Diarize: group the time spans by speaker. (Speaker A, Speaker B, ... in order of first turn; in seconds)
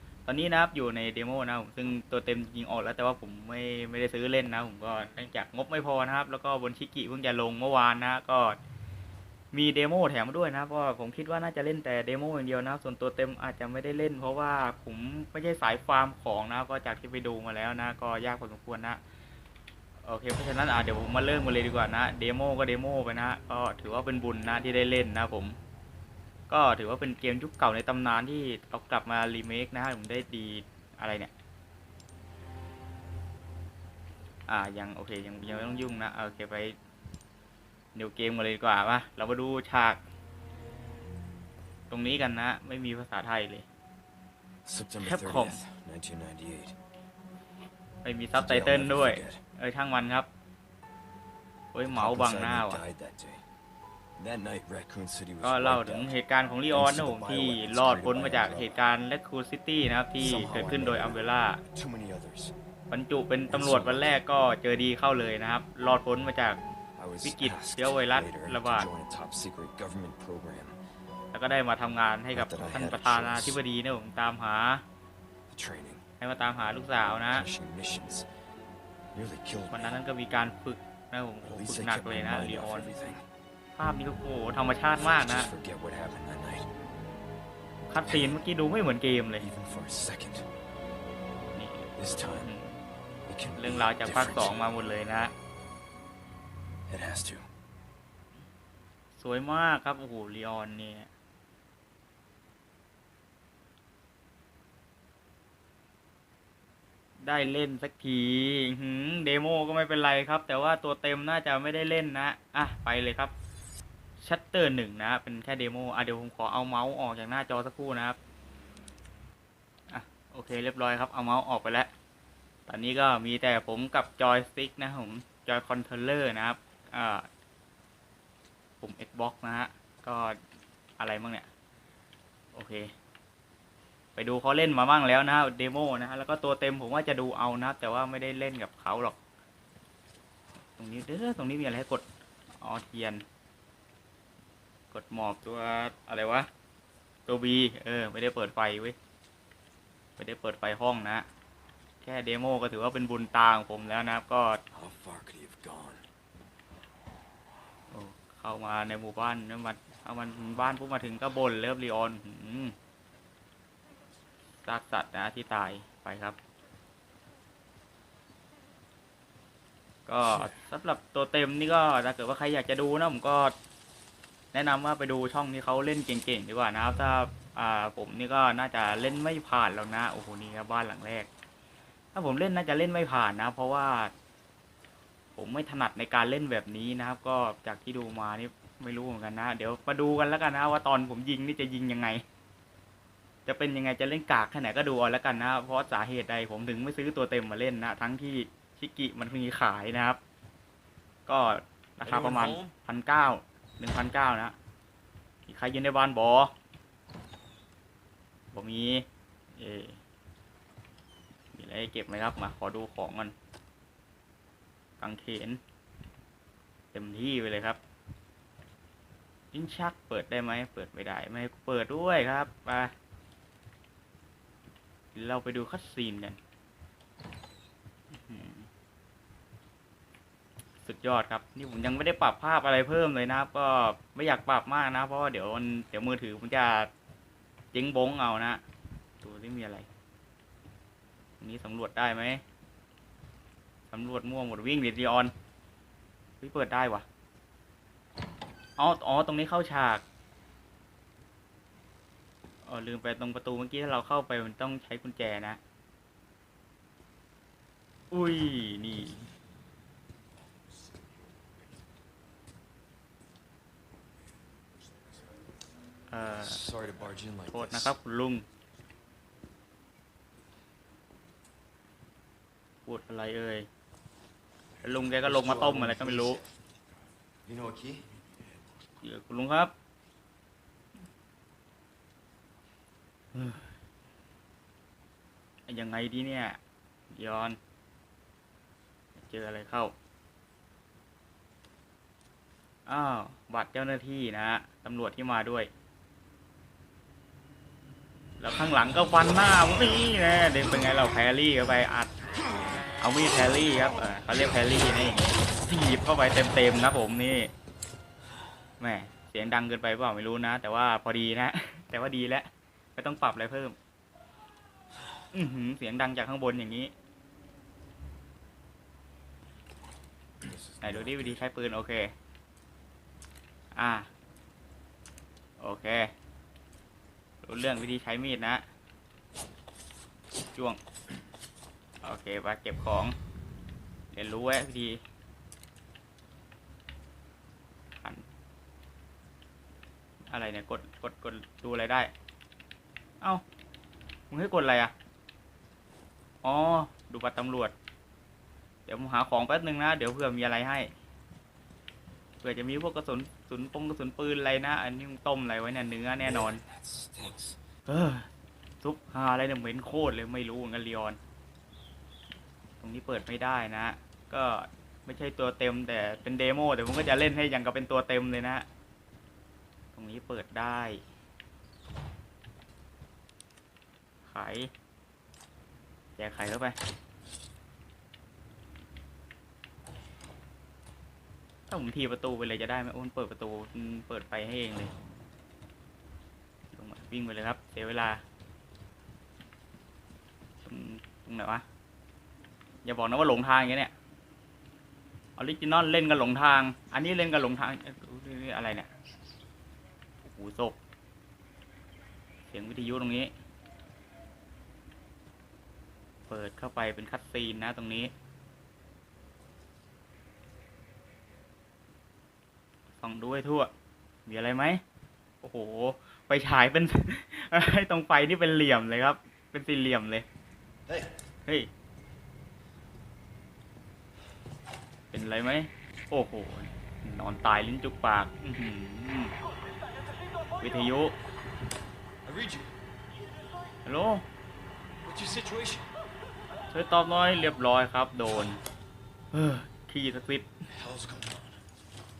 Speaker A: 0.3-8.6, 9.5-19.0, 20.0-25.6, 26.5-31.3, 34.5-36.7, 37.9-40.0, 41.9-43.6, 45.0-45.6, 48.0-50.3, 51.7-52.8, 55.4-61.6, 62.9-66.6, 67.2-68.9, 71.3-74.8, 76.2-77.5, 79.7-82.9, 83.8-85.5, 87.9-89.5, 91.5-92.8, 93.5-95.3, 99.2-101.1, 107.2-113.3, 114.2-118.2, 119.9-121.9, 122.7-127.3, 128.8-130.4, 131.0-131.5, 132.5-132.9, 134.2-139.2, 140.8-142.1, 142.6-143.2, 144.9-146.5, 147.3-148.9, 150.2-151.2, 152.0-154.6, 157.9-162.7, 164.6-166.4, 170.1-173.5, 174.5-181.3, 182.1-184.1, 185.3-192.2, 193.4-200.2, 201.2-204.5, 205.5-206.5, 208.5-210.0, 211.5-213.3, 215.0-215.6, 216.9-217.8, 219.5-222.9, 225.1-226.4, 228.1-228.7, 230.8-236.9, 237.7-238.6, 239.2-239.9, 241.4-242.4, 243.9-245.3, 246.4-247.1, 248.8-250.0, 252.6-255.6, 258.1-259.2, 266.1-266.6, 267.5-268.4, 272.9-273.7, 274.8-276.4, 279.0-279.7, 283.3-283.6, 285.7-286.6, 287.1-287.6, 289.1-289.9, 292.9-295.7, 298.4-302.1, 303.0-307.5, 308.8-313.8, 315.3-316.9, 320.8-322.1, 323.7-324.1, 325.6-326.1, 327.4-328.6, 330.5-330.8, 332.0-333.1, 334.1-335.0, 340.3-342.1, 344.3-344.9, 346.4-347.7, 348.9-350.9, 352.4-356.6, 357.9-358.3, 358.8-361.2, 362.8-368.6, 369.9-371.0, 374.2-374.7, 376.2-376.8, 381.7-384.9, 386.7-388.2, 390.6-391.6, 392.8-393.9, 395.4-398.9, 400.2-400.8, 402.5-403.3, 406.3-408.1, 413.0-413.7, 414.2-414.8, 415.4-420.2, 425.1-429.3, 430.6-431.1, 433.9-434.2, 436.7-438.6, 439.3-440.5
Speaker B: 44.6-46.7, 48.3-49.4, 51.9-53.4, 54.2-56.1, 56.7-58.8, 60.2-62.5, 63.5-64.2, 67.0-70.8, 72.3-73.6, 75.5-76.0, 77.3-78.3, 79.1-80.0, 81.4-83.2, 85.0-86.7, 89.4-90.5, 92.0-92.5, 93.2-95.0, 96.9-97.5, 154.7-156.0, 202.0-202.8, 260.7-261.1, 264.9-265.2, 266.2-267.9, 274.8-276.6, 277.4-278.2, 320.4-321.5, 356.2-357.6, 420.9-421.1, 432.2-432.7, 435.0-435.9, 440.7-441.7